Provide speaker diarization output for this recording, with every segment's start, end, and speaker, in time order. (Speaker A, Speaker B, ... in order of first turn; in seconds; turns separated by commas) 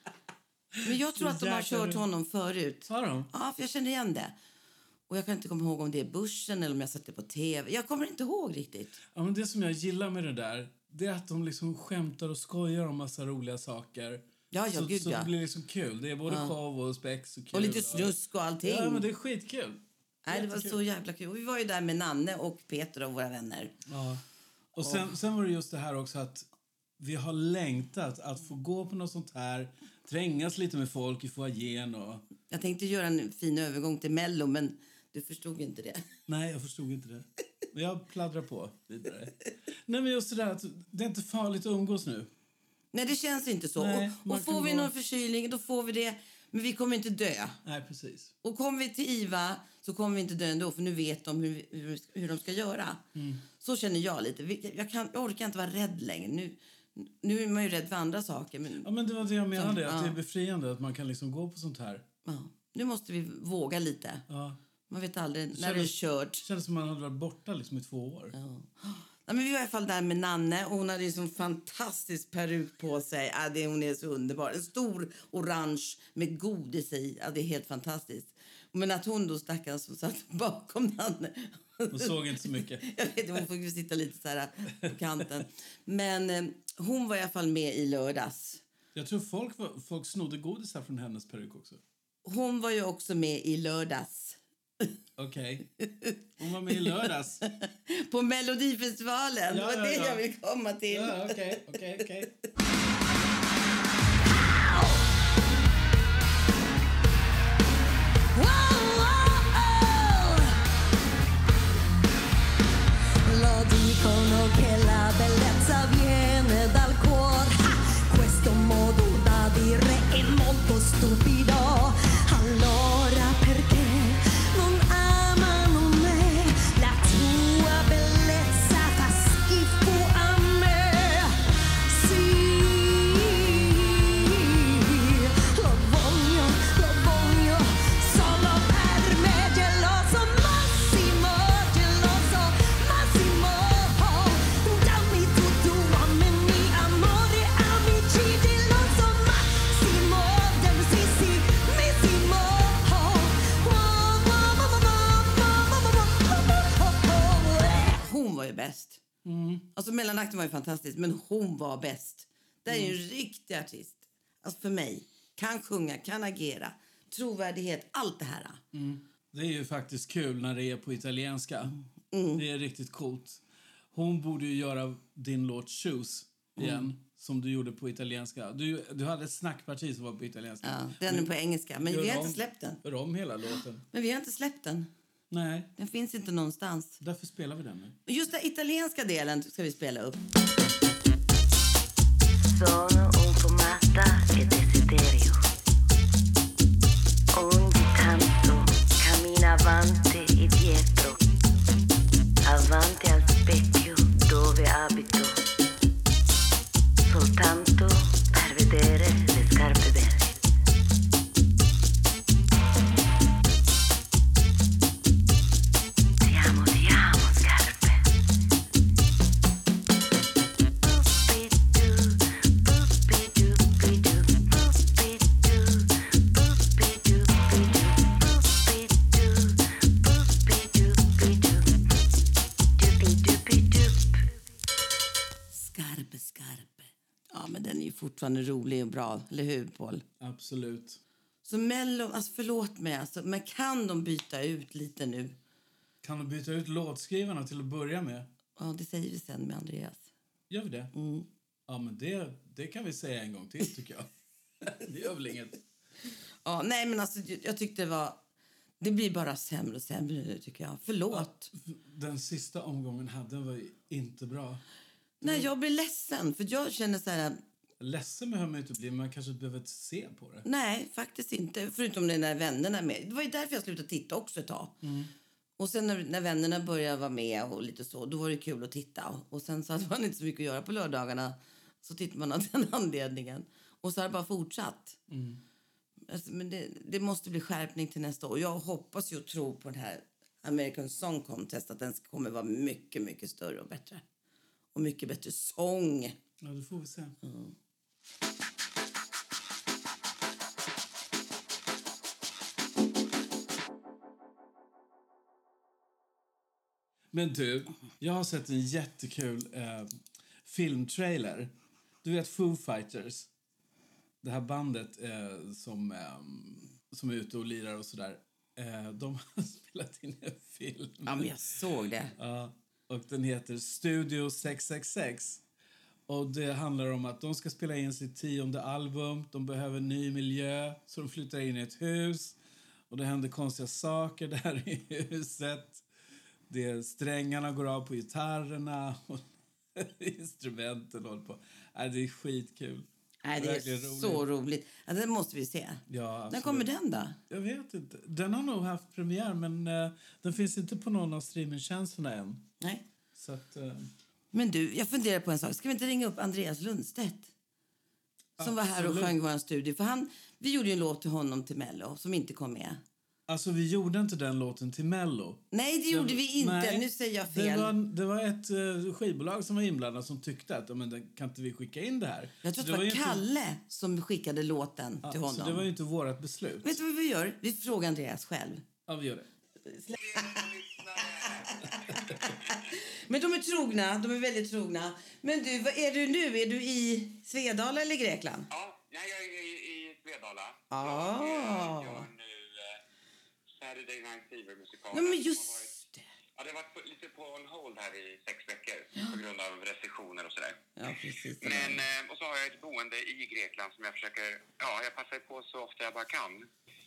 Speaker A: 0.8-4.3, Speaker B: 0.8-2.0, Speaker B: 2.9-3.3, Speaker A: 5.1-9.0, Speaker B: 9.1-20.8, Speaker A: 14.5-15.3, Speaker A: 16.3-16.6, Speaker A: 17.5-19.1, Speaker A: 20.2-23.7, Speaker B: 23.9-24.2, Speaker B: 24.7-26.5, Speaker A: 24.8-25.1, Speaker B: 27.0-32.2, Speaker A: 32.5-36.1, Speaker B: 36.3-42.3, Speaker A: 42.9-47.6, Speaker B: 43.8-44.9, Speaker B: 47.6-48.3, Speaker A: 48.4-58.9, Speaker B: 53.1-53.4, Speaker B: 58.8-62.0, Speaker A: 59.5-60.2, Speaker A: 62.2-64.3, Speaker B: 64.3-64.6, Speaker A: 64.9-66.4, Speaker B: 65.5-68.3, Speaker A: 68.3-88.6, Speaker B: 81.9-82.9, Speaker B: 88.9-91.8, Speaker A: 92.2-94.9, Speaker B: 95.2-95.7, Speaker A: 95.8-102.3, Speaker B: 96.4-97.4, Speaker B: 99.5-100.2, Speaker B: 100.9-102.3, Speaker C: 108.4-110.4, Speaker C: 113.3-114.1, Speaker C: 114.8-131.3, Speaker C: 131.9-157.9, Speaker A: 157.9-159.0, Speaker B: 159.2-159.7, Speaker A: 159.7-168.6, Speaker B: 162.7-163.0, Speaker B: 168.7-171.8, Speaker A: 172.1-172.4, Speaker B: 172.3-173.4, Speaker B: 173.9-181.3, Speaker A: 176.6-176.9, Speaker A: 180.6-182.8, Speaker B: 181.8-183.8, Speaker A: 183.9-184.9, Speaker B: 185.3-185.7, Speaker A: 185.8-187.0, Speaker B: 187.0-188.0, Speaker A: 188.1-190.2, Speaker D: 192.6-193.0, Speaker D: 193.7-195.3, Speaker D: 202.9-203.4, Speaker A: 235.5-240.0, Speaker B: 240.2-241.0, Speaker A: 241.4-245.4, Speaker B: 246.0-248.3, Speaker A: 248.6-250.1, Speaker B: 250.5-250.9, Speaker A: 250.9-251.3, Speaker B: 251.7-254.1, Speaker B: 254.6-255.6, Speaker A: 256.4-258.2, Speaker A: 258.8-261.5, Speaker B: 261.1-264.6, Speaker A: 265.2-267.4, Speaker B: 265.2-265.5, Speaker B: 267.8-270.4, Speaker A: 270.4-274.8, Speaker B: 274.8-275.1, Speaker A: 275.6-285.0, Speaker B: 285.1-285.4, Speaker A: 286.1-294.0, Speaker A: 294.7-296.1, Speaker B: 296.4-297.1, Speaker A: 297.2-297.5, Speaker B: 307.1-309.9, Speaker B: 310.4-311.5, Speaker B: 312.0-313.3, Speaker B: 314.2-321.3, Speaker A: 321.0-322.1, Speaker B: 322.2-325.4, Speaker B: 326.1-332.4, Speaker B: 332.9-335.8, Speaker B: 336.5-344.3, Speaker A: 343.2-347.2, Speaker B: 345.9-346.7, Speaker B: 347.3-352.4, Speaker B: 353.1-353.9, Speaker A: 354.3-357.3, Speaker B: 358.4-359.1, Speaker A: 358.4-362.8, Speaker B: 363.3-373.2, Speaker A: 365.5-367.7, Speaker A: 372.4-375.7, Speaker B: 375.0-376.8, Speaker A: 376.6-378.6, Speaker B: 378.9-379.3, Speaker A: 379.7-380.4, Speaker E: 379.9-382.6, Speaker A: 381.2-388.5, Speaker E: 388.5-392.8, Speaker A: 390.7-392.1, Speaker E: 393.6-395.8, Speaker A: 394.9-396.0, Speaker E: 396.4-400.6, Speaker A: 400.8-401.8, Speaker E: 401.4-406.5